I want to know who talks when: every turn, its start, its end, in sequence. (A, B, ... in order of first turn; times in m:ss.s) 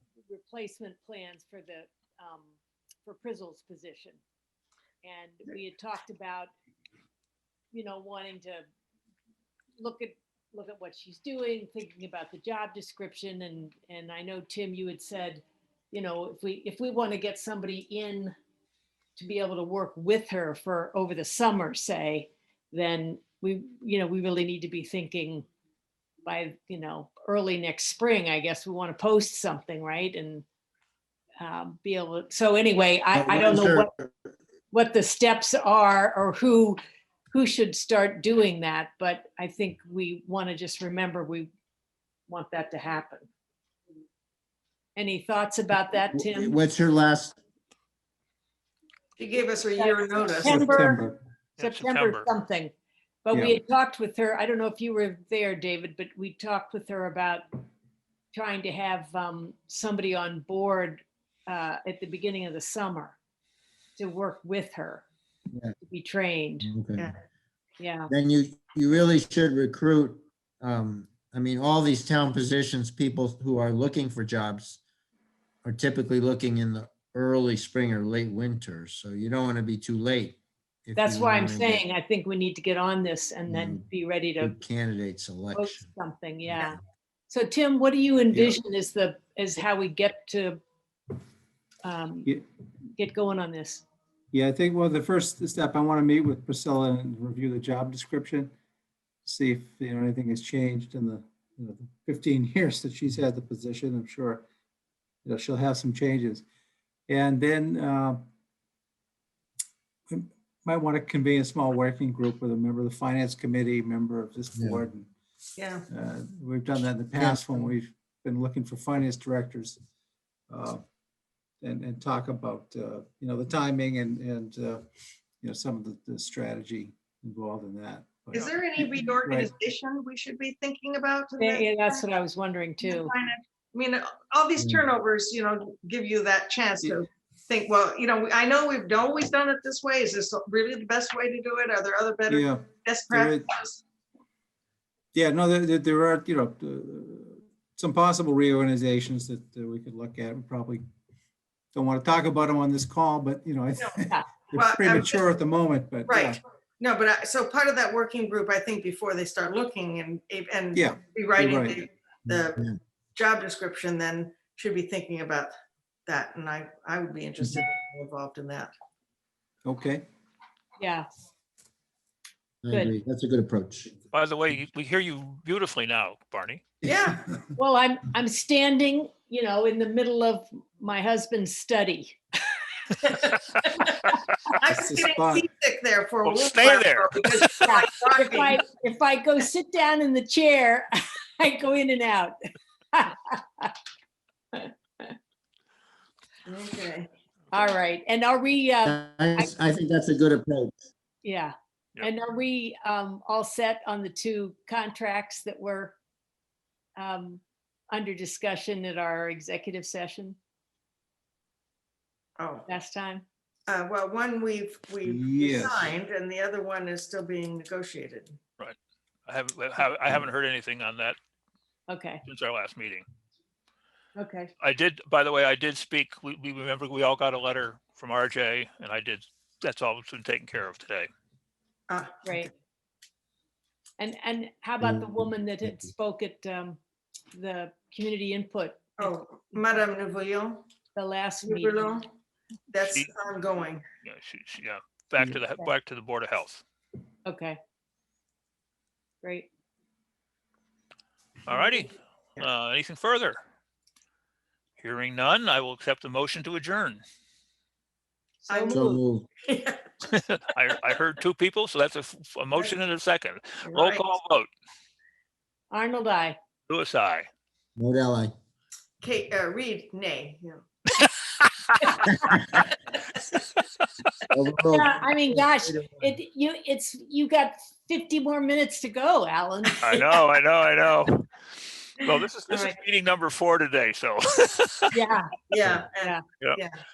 0:00.3-0:04.2 A
0:05.0-0:06.5 A
0:07.7-0:08.6 A
0:09.8-0:18.3 A
0:19.2-0:25.5 A
0:26.2-0:30.4 A
0:31.4-0:33.9 A
0:33.1-0:34.1 B
0:34.7-0:36.8 A
0:37.3-0:41.5 A
0:42.3-0:43.3 A
0:45.0-0:46.6 A
0:46.1-0:47.4 B
0:49.2-0:51.0 C
0:49.8-0:51.0 A
0:50.4-0:51.2 D
0:51.6-0:52.3 E
0:51.6-0:52.7 A
0:53.2-0:57.4 A
0:53.3-0:53.6 D
0:58.3-1:03.2 A
1:04.0-1:05.1 A
1:05.8-1:06.7 A
1:06.6-1:07.1 B
1:07.8-1:08.1 A
1:08.1-1:14.8 B
1:15.6-1:21.8 B
1:21.0-1:24.6 A
1:23.5-1:23.8 B
1:24.4-1:25.9 B
1:25.5-1:26.8 A
1:27.3-1:30.6 A
1:28.3-1:28.6 D
1:31.8-1:32.3 A
1:33.0-1:33.8 A
1:34.3-1:38.5 D
1:39.2-1:44.4 D
1:45.2-1:46.4 D
1:47.1-1:48.3 D
1:50.1-1:55.1 D
1:54.6-1:54.8 B
1:55.6-1:55.9 C
1:55.9-1:59.8 D
1:57.2-1:57.7 B
2:00.5-2:00.8 D
2:01.6-2:04.9 D
2:05.4-2:09.5 D
2:08.3-2:12.1 C
2:11.4-2:13.1 A
2:12.8-2:23.8 C
2:14.6-2:14.8 B
2:22.3-2:23.5 D
2:25.1-2:30.8 D
2:31.7-2:36.4 D
2:34.5-2:35.2 C
2:36.1-2:45.5 C
2:40.7-2:41.8 D
2:42.3-2:42.7 B
2:46.1-2:48.7 C
2:49.6-2:50.0 D
2:50.8-2:51.1 A
2:52.6-2:53.9 B
2:54.1-2:56.6 E
2:56.8-2:57.3 C
2:57.6-3:03.0 A
3:03.0-3:04.0 C
3:03.3-3:04.2 E
3:04.5-3:08.6 C
3:04.7-3:05.4 D
3:06.2-3:07.7 E
3:07.6-3:12.4 A
3:12.9-3:13.8 A
3:14.5-3:15.2 A
3:16.5-3:17.1 C
3:17.5-3:19.5 A
3:18.8-3:20.8 B
3:21.2-3:26.0 A
3:27.0-3:30.4 A
3:32.4-3:32.7 C
3:32.7-3:33.2 A
3:33.7-3:38.4 C
3:35.0-3:35.9 D
3:39.3-3:41.2 E
3:41.9-3:42.2 A
3:42.3-3:43.0 E
3:44.2-3:44.5 A
3:44.6-3:51.1 E
3:51.9-3:52.5 C
3:52.2-3:52.5 A
3:54.0-3:56.8 A
3:54.8-3:55.1 B
3:57.3-3:59.1 A
3:59.0-4:00.6 C
4:01.0-4:02.0 A
4:01.4-4:02.1 C
4:02.7-4:03.8 C
4:02.9-4:03.1 E
4:04.0-4:06.6 E
4:07.2-4:07.6 A
4:09.2-4:09.5 A
4:11.5-4:13.4 E
4:14.8-4:17.0 E
4:18.5-4:19.0 A
4:18.5-4:19.9 C
4:18.7-4:19.3 B
4:20.1-4:24.5 E
4:23.6-4:24.1 C
4:25.7-4:26.4 A
4:26.7-4:27.3 E
4:27.8-4:28.3 B
4:29.0-4:30.6 C
4:31.0-4:32.0 E
4:32.0-4:32.3 A
4:32.3-4:32.7 B
4:33.3-4:33.6 E
4:34.3-4:36.2 B
4:34.7-4:40.0 A
4:39.8-4:45.0 E
4:42.0-4:42.8 C
4:44.9-4:45.3 A
4:45.5-4:46.8 C